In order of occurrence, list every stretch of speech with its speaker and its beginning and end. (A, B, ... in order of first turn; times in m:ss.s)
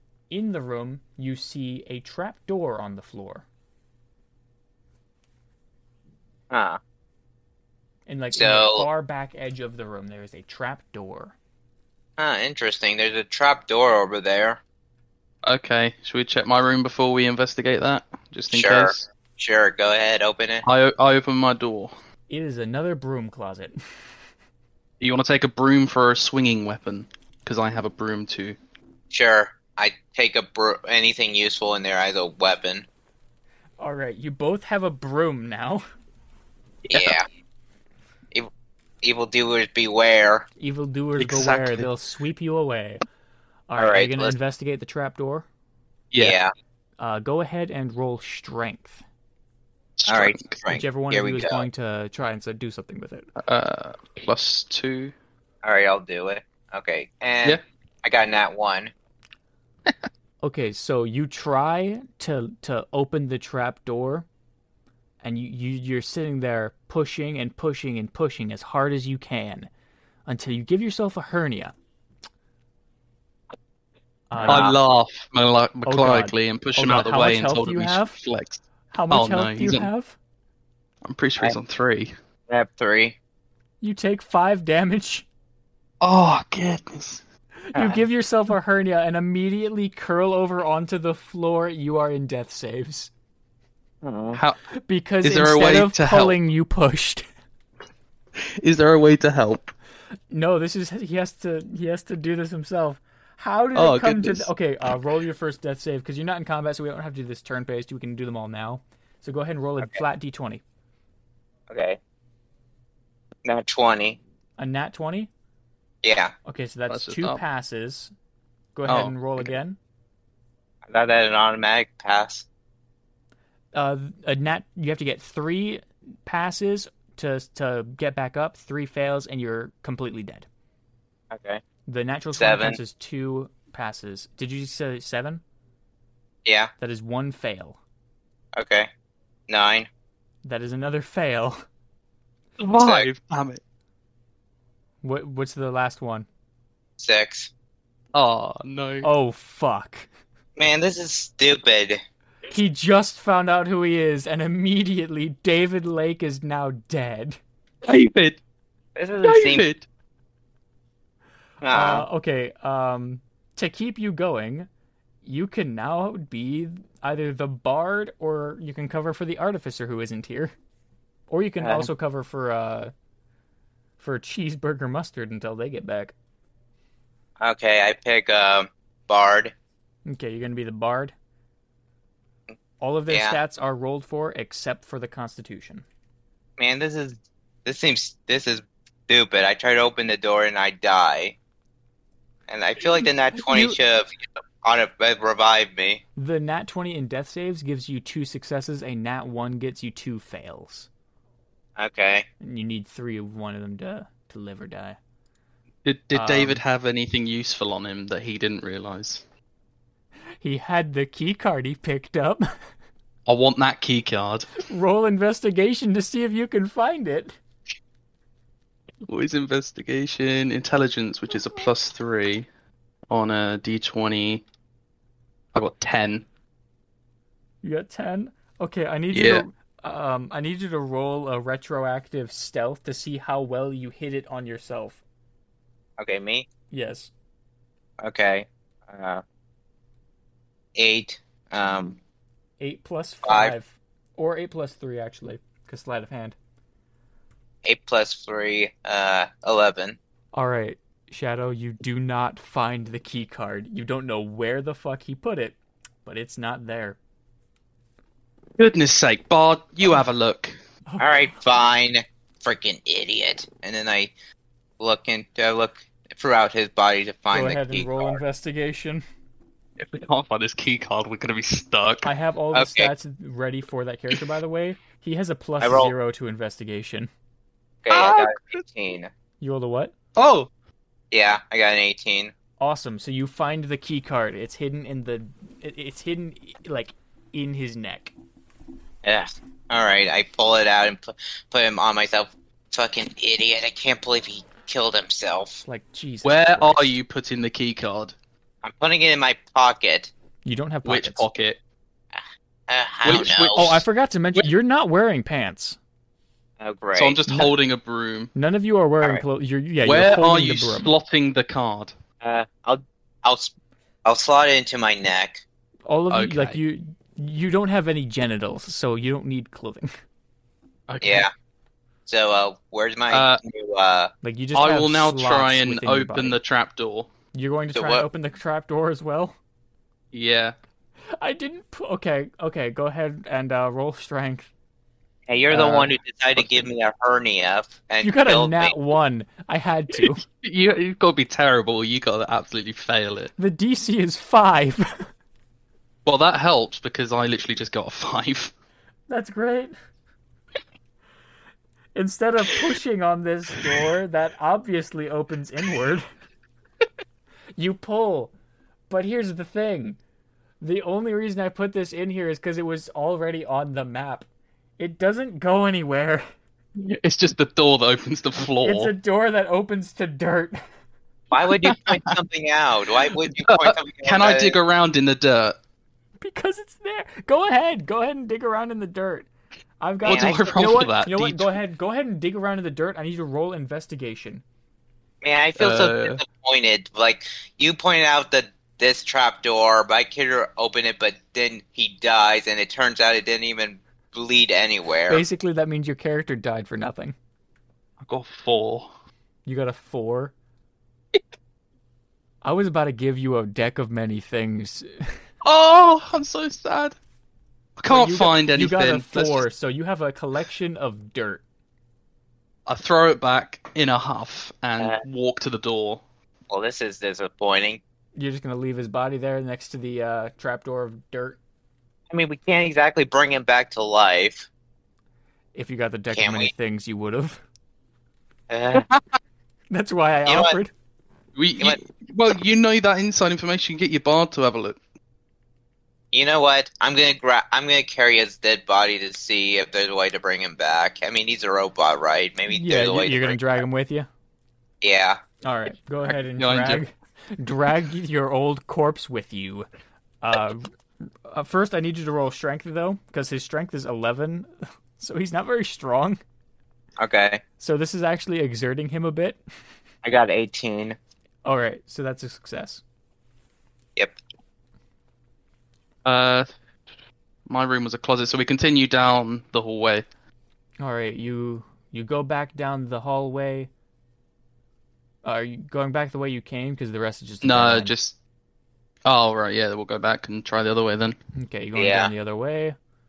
0:00.3-0:03.4 A
0:06.5-0:06.8 B
0:08.1-0:11.3 A
0:08.3-0:08.8 B
0:12.2-0:14.6 B
0:15.4-0:19.0 C
0:18.5-0:20.6 B
0:20.6-0:21.9 C
0:22.3-0:23.8 A
0:25.0-0:28.6 C
0:29.1-0:32.8 B
0:33.8-0:35.8 A
0:36.9-0:37.2 C
0:36.9-0:37.2 B
0:39.0-0:40.5 B
0:40.6-0:43.0 A
0:41.2-0:41.9 C
0:43.7-0:45.4 A
0:43.8-0:44.3 B
0:46.1-0:46.4 C
0:46.2-0:46.5 B
0:47.0-0:49.0 A
0:50.0-0:50.6 C
0:50.1-0:51.6 B
0:50.7-0:53.3 A
0:53.4-0:55.1 C
0:55.6-0:58.9 B
1:00.4-1:04.2 A
1:05.2-1:09.7 A
1:10.3-1:11.7 A
1:14.3-1:14.7 A
1:14.4-1:14.7 B
1:14.4-1:19.9 C
1:15.8-1:18.2 A
1:18.9-1:20.2 A
1:21.0-1:22.1 C
1:22.5-1:23.2 B
1:23.8-1:25.2 A
1:26.0-1:27.2 C
1:27.7-1:33.1 A
1:27.7-1:28.0 B
1:34.0-1:34.4 B
1:34.3-1:34.6 C
1:34.7-1:37.2 A
1:35.2-1:36.4 C
1:38.4-1:39.7 C
1:40.3-1:50.6 A
1:43.7-1:44.5 C
1:51.7-1:52.0 B
1:53.4-1:54.2 B
1:54.6-1:55.3 A
1:56.0-1:56.3 B
1:56.4-1:58.1 A
1:56.9-1:57.4 C
1:58.7-1:59.8 A
1:58.8-1:59.5 C
2:00.9-2:02.4 B
2:03.7-2:10.5 A
2:11.3-2:11.6 B
2:11.8-2:15.4 A
2:12.4-2:12.8 B
2:16.4-2:16.7 B
2:16.8-2:17.8 A
2:18.5-2:18.9 B
2:19.5-2:19.9 B
2:20.4-2:21.6 A
2:22.6-2:23.6 C
2:22.8-2:23.1 B
2:25.0-2:26.3 A
2:27.0-2:27.5 B
2:28.1-2:29.1 C
2:29.0-2:30.1 A
2:30.6-2:32.0 B
2:32.5-2:37.4 A
2:37.8-2:38.4 C
2:39.0-2:39.7 B
2:39.2-2:39.8 C
2:41.6-2:42.0 B
2:41.7-2:44.7 A
2:45.2-2:50.5 A
2:51.3-2:52.9 A
2:51.6-2:51.9 B
2:54.0-2:56.1 A
2:57.4-2:59.5 B
3:00.1-3:01.1 A
3:02.8-3:05.8 A
3:03.1-3:03.4 B
3:06.6-3:11.4 B
3:12.5-3:16.0 B
3:13.4-3:13.8 A
3:16.2-3:20.9 A
3:21.8-3:22.2 B
3:22.4-3:25.0 A
3:25.8-3:29.2 C
3:26.1-3:26.6 A
3:30.4-3:32.5 A
3:33.2-3:34.5 C
3:34.6-3:37.3 A
3:39.0-3:42.5 C
3:43.1-3:44.4 C
3:45.5-3:46.2 C
3:47.6-3:55.0 A
3:49.1-3:49.4 C
3:56.0-3:56.5 B
3:56.7-3:57.1 A
3:58.0-3:59.2 B
4:00.7-4:02.0 B
4:02.6-4:06.4 A
4:03.2-4:03.5 B
4:07.6-4:10.0 B
4:10.3-4:17.0 A
4:18.6-4:20.5 C
4:20.9-4:21.3 A
4:21.0-4:24.1 B
4:24.8-4:28.2 B
4:27.3-4:29.0 A
4:29.8-4:32.1 C
4:32.0-4:37.1 A
4:32.5-4:32.9 B
4:35.6-4:35.9 B
4:37.8-4:39.1 B
4:37.9-4:38.6 C
4:39.4-4:39.9 A
4:40.2-4:40.5 C
4:41.1-4:42.3 B
4:42.6-4:48.1 A
4:49.0-4:55.6 B
4:55.6-4:56.9 A
4:56.2-4:58.1 C
4:58.6-5:00.1 B
5:00.4-5:01.2 A
5:00.8-5:01.6 C
5:02.1-5:03.8 B
5:03.0-5:03.8 C
5:03.1-5:05.8 A
5:06.6-5:07.2 B
5:06.9-5:08.3 C
5:07.3-5:07.5 A
5:08.3-5:10.9 A
5:09.8-5:11.9 C
5:12.2-5:13.5 B
5:14.0-5:15.4 B
5:15.9-5:19.9 A
5:16.1-5:16.6 C
5:20.9-5:21.3 C
5:21.0-5:21.3 B
5:22.1-5:24.1 B
5:23.1-5:23.4 C
5:24.2-5:26.4 A
5:24.5-5:27.1 C
5:27.3-5:29.4 A
5:27.7-5:28.0 B
5:30.1-5:30.5 C
5:31.2-5:34.5 A
5:35.3-5:38.7 B
5:35.5-5:36.6 C
5:38.0-5:40.2 A
5:40.2-5:43.3 C
5:43.4-5:45.1 A
5:46.0-5:48.5 C
5:49.1-5:49.7 A
5:51.9-5:56.1 A
5:57.6-5:58.3 A
5:58.9-6:00.0 A
6:00.6-6:04.3 A
6:04.8-6:06.2 A
6:06.7-6:08.9 C
6:08.6-6:10.6 A
6:11.3-6:14.6 B
6:11.4-6:12.2 C
6:13.1-6:15.6 C
6:16.2-6:19.3 A
6:19.8-6:24.4 A
6:20.0-6:21.5 C
6:20.0-6:20.7 B
6:25.2-6:35.2 B
6:25.6-6:26.2 C
6:35.1-6:37.1 A
6:38.0-6:38.9 C
6:39.4-6:40.3 A
6:42.4-6:45.2 A
6:45.4-6:47.0 C
6:47.8-6:49.4 C
6:47.9-6:51.4 A
6:52.7-6:56.0 C
6:56.5-6:57.8 B
6:58.2-7:01.4 A
7:02.1-7:04.5 B
7:05.5-7:07.4 A
7:06.1-7:06.5 B
7:08.5-7:08.9 B
7:09.7-7:10.7 A
7:10.2-7:10.6 B
7:11.3-7:14.8 C
7:16.1-7:23.4 B
7:22.5-7:24.1 A
7:24.8-7:25.2 B
7:25.4-7:29.7 A
7:26.0-7:26.8 C
7:30.2-7:30.7 A
7:31.2-7:36.2 A
7:37.0-7:37.4 B
7:37.6-7:39.4 A
7:40.0-7:41.0 B
7:41.4-7:42.8 A
7:46.0-7:46.5 C
7:47.5-7:50.0 C
7:50.8-7:53.7 A
7:55.2-7:57.9 A
7:57.4-7:58.2 C
7:59.0-8:01.2 C
8:01.3-8:02.8 A
8:01.8-8:02.1 B